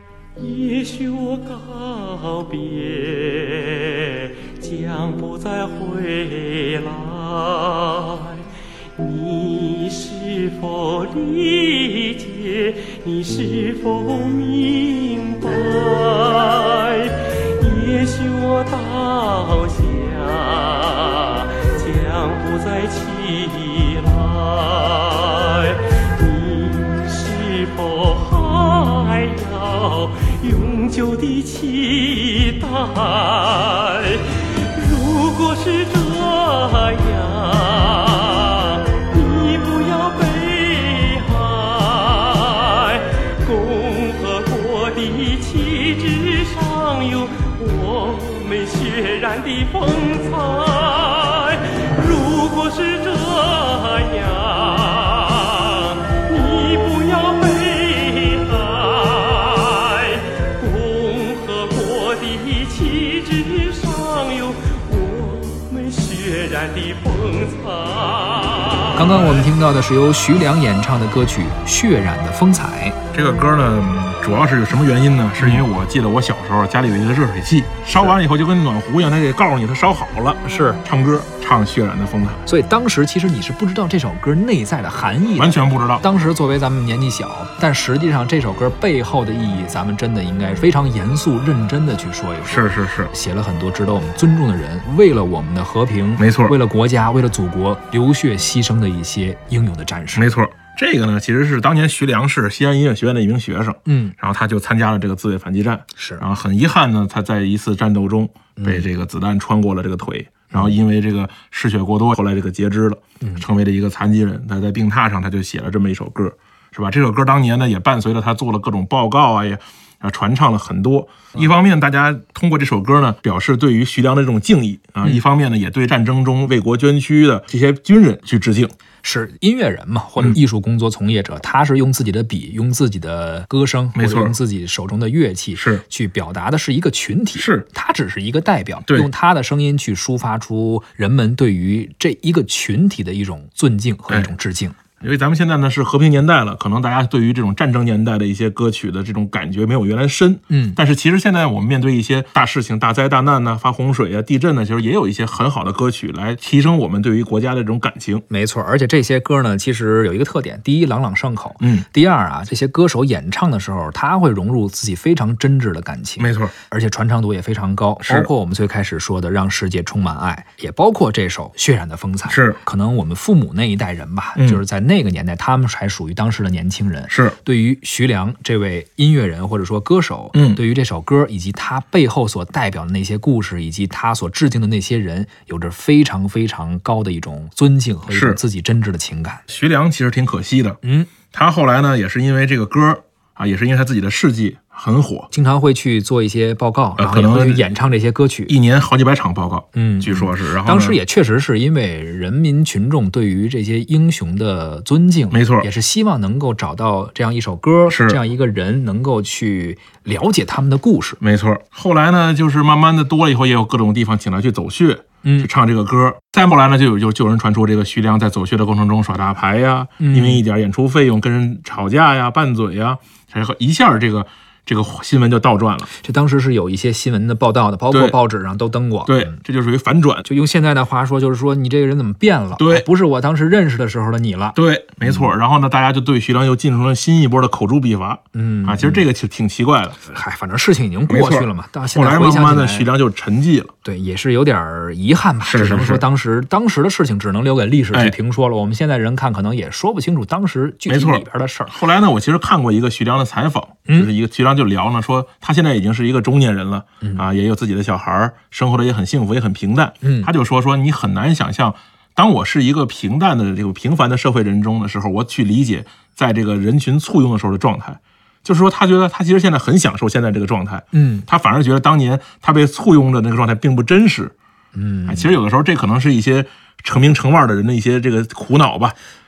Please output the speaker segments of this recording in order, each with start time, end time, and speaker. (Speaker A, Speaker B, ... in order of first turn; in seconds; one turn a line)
Speaker A: 0.4-69.2
Speaker B: 68.9-73.0
Speaker C: 73.1-82.4
Speaker B: 75.4-75.6
Speaker B: 80.4-80.8
Speaker B: 82.5-100.3
Speaker C: 85.3-86.0
Speaker C: 92.4-93.1
Speaker C: 96.2-96.5
Speaker C: 100.1-128.7
Speaker B: 103.8-104.1
Speaker B: 106.0-106.2
Speaker B: 108.6-108.8
Speaker B: 129.0-144.8
Speaker C: 133.9-134.3
Speaker C: 135.5-135.8
Speaker C: 137.3-137.7
Speaker C: 145.0-158.2
Speaker B: 150.5-150.8
Speaker B: 158.3-189.4
Speaker C: 161.6-161.9
Speaker C: 166.2-166.5
Speaker C: 168.0-168.3
Speaker C: 172.3-172.6
Speaker C: 177.1-177.4
Speaker C: 180.3-180.6
Speaker C: 188.1-188.4
Speaker C: 189.5-190.8
Speaker B: 190.8-191.1
Speaker C: 191.3-195.3
Speaker B: 195.3-198.5
Speaker C: 197.0-197.7
Speaker C: 198.5-201.0
Speaker B: 199.7-211.2
Speaker C: 205.3-205.7
Speaker C: 207.9-208.2
Speaker C: 211.2-225.9
Speaker B: 215.2-215.5
Speaker B: 220.0-220.4
Speaker B: 225.9-229.4
Speaker C: 227.9-228.2
Speaker C: 229.1-230.3
Speaker B: 230.2-235.2
Speaker C: 232.6-232.8
Speaker C: 234.6-240.1
Speaker B: 238.3-239.0
Speaker B: 240.0-242.9
Speaker C: 241.1-243.7
Speaker B: 243.8-251.8
Speaker C: 245.4-246.1
Speaker C: 250.9-274.3
Speaker B: 260.0-260.3
Speaker B: 270.9-271.2
Speaker B: 274.7-275.3
Speaker C: 275.1-278.9